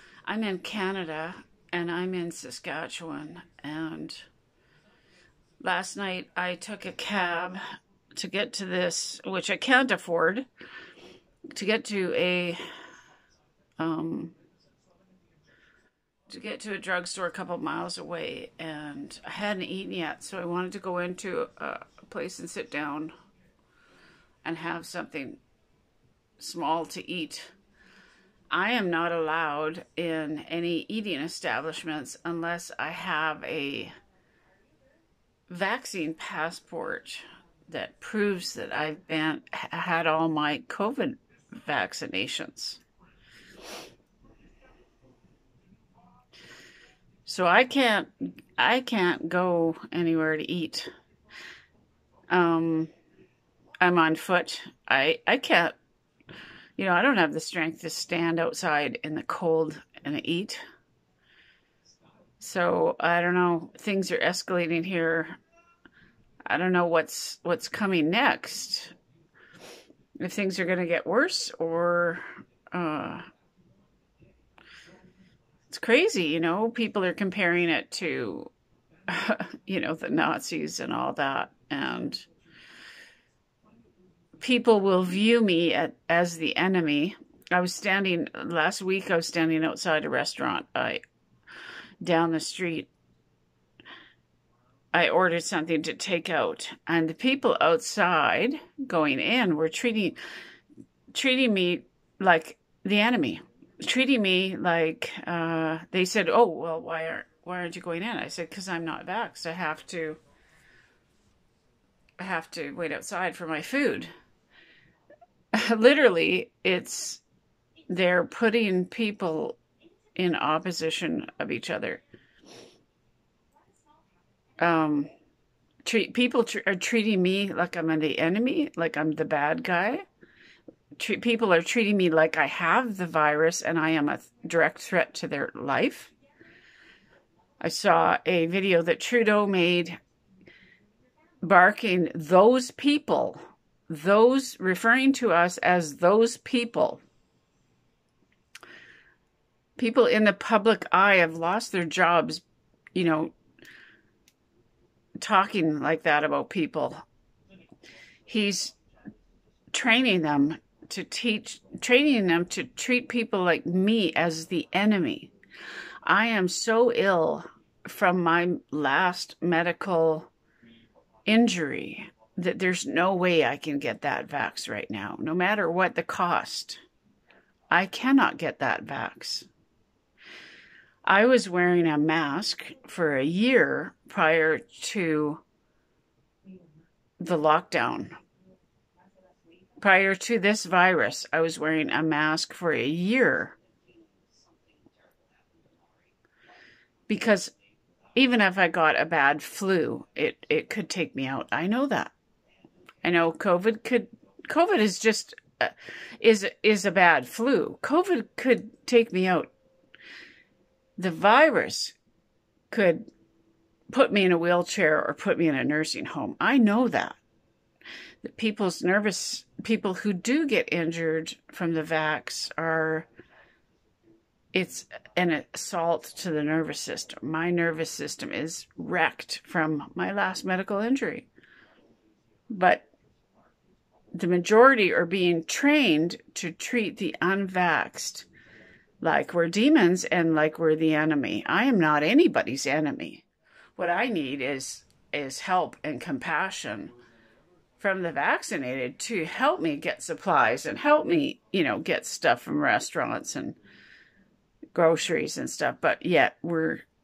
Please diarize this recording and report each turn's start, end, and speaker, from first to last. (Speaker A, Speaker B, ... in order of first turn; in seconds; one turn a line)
Speaker A: 0.2-4.2
Speaker A: 5.6-7.6
Speaker A: 8.1-10.5
Speaker A: 11.5-12.6
Speaker A: 13.8-14.3
Speaker A: 16.3-23.1
Speaker A: 24.4-25.4
Speaker A: 26.4-27.5
Speaker A: 28.5-33.9
Speaker A: 35.5-42.8
Speaker A: 47.2-50.9
Speaker A: 52.3-52.9
Speaker A: 53.8-55.8
Speaker A: 56.8-60.6
Speaker A: 62.4-65.4
Speaker A: 66.5-68.9
Speaker A: 70.2-73.3
Speaker A: 75.7-78.5
Speaker A: 79.1-82.2
Speaker A: 84.4-91.0
Speaker A: 92.0-92.9
Speaker A: 94.9-100.2
Speaker A: 101.1-110.2
Speaker A: 112.2-114.1
Speaker A: 115.5-117.2
Speaker A: 117.9-119.6
Speaker A: 120.2-122.0
Speaker A: 124.6-125.1
Speaker A: 125.8-130.0
Speaker A: 131.0-136.1
Speaker A: 137.6-140.0
Speaker A: 141.4-147.0
Speaker A: 149.8-152.4
Speaker A: 152.9-153.3
Speaker A: 155.2-157.0
Speaker A: 158.3-158.7
Speaker A: 159.7-165.3
Speaker A: 166.0-170.3
Speaker A: 171.2-176.8
Speaker A: 177.7-179.5
Speaker A: 181.1-185.4
Speaker A: 187.2-188.2
Speaker A: 189.8-193.6
Speaker A: 197.1-197.5
Speaker A: 198.1-202.1
Speaker A: 203.0-209.5
Speaker A: 211.0-211.9
Speaker A: 212.7-213.1
Speaker A: 213.9-217.2
Speaker A: 218.2-223.1
Speaker A: 224.5-231.3
Speaker A: 232.5-232.8
Speaker A: 234.1-238.2
Speaker A: 239.0-243.2
Speaker A: 243.8-246.9
Speaker A: 247.8-253.6
Speaker A: 254.7-256.8